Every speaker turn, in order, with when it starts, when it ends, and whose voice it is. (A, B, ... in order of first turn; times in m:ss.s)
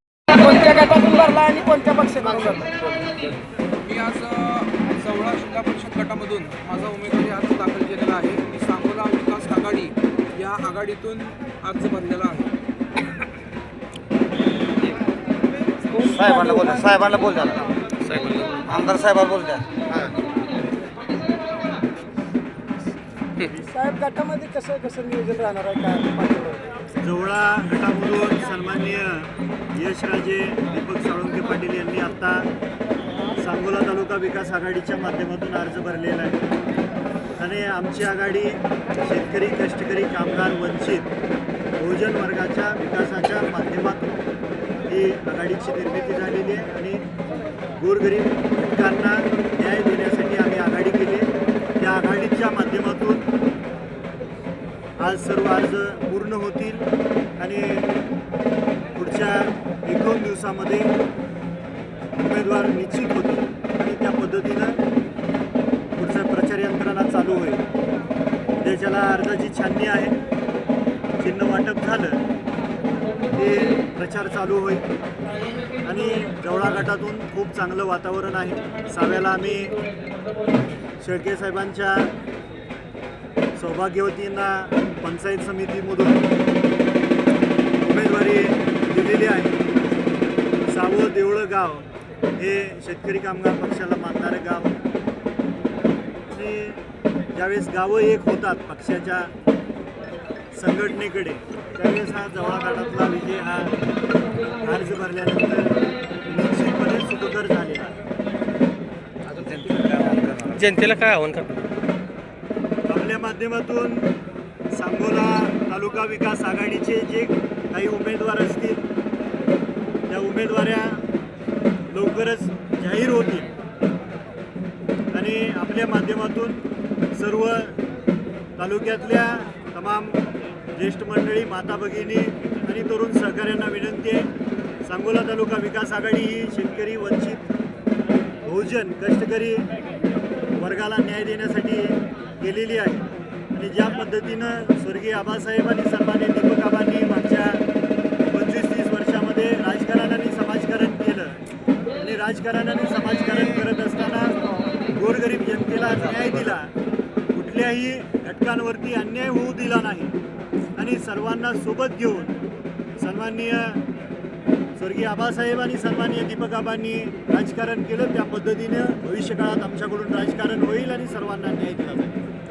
0:00.3-0:03.1 A
0:03.8-0:12.5 B
0:15.9-0:17.0 A
0:16.1-0:17.6 C
0:18.0-0:18.8 D
0:18.7-0:19.9 C
0:23.7-0:26.8 A
0:27.0-0:32.5 E
0:33.4-0:36.5 E
0:37.4-0:41.1 E
0:41.8-0:44.2 E
0:44.8-0:47.0 E
0:47.8-0:53.3 E
0:55.0-0:57.9 E
0:58.9-1:00.9 E
1:02.2-1:04.8 E
1:05.9-1:07.6 E
1:08.6-1:10.2 E
1:11.2-1:12.2 E
1:13.3-1:14.8 E
1:15.8-1:19.8 E
1:21.0-1:22.1 E
1:23.6-1:26.3 E
1:27.8-1:29.6 E
1:30.7-1:34.8 E
1:36.3-1:36.8 E
1:37.3-1:39.3 E
1:40.5-1:43.8 E
1:44.6-1:48.0 E
1:49.3-1:50.6 C
1:50.5-1:51.7 D
1:52.9-1:54.1 E
1:54.7-1:58.8 E
2:00.1-2:01.0 E
2:01.9-2:03.5 E
2:05.1-2:07.8 E
2:08.6-2:10.2 E
2:10.7-2:14.3 E
2:14.8-2:17.5 E
2:18.4-2:19.7 E
2:20.5-2:27.6 E
2:28.3-2:31.4 E
2:32.0-2:36.7 E
2:37.3-2:40.2 E
2:40.8-2:42.4 E
2:43.0-2:43.8 E
2:44.8-2:52.3 E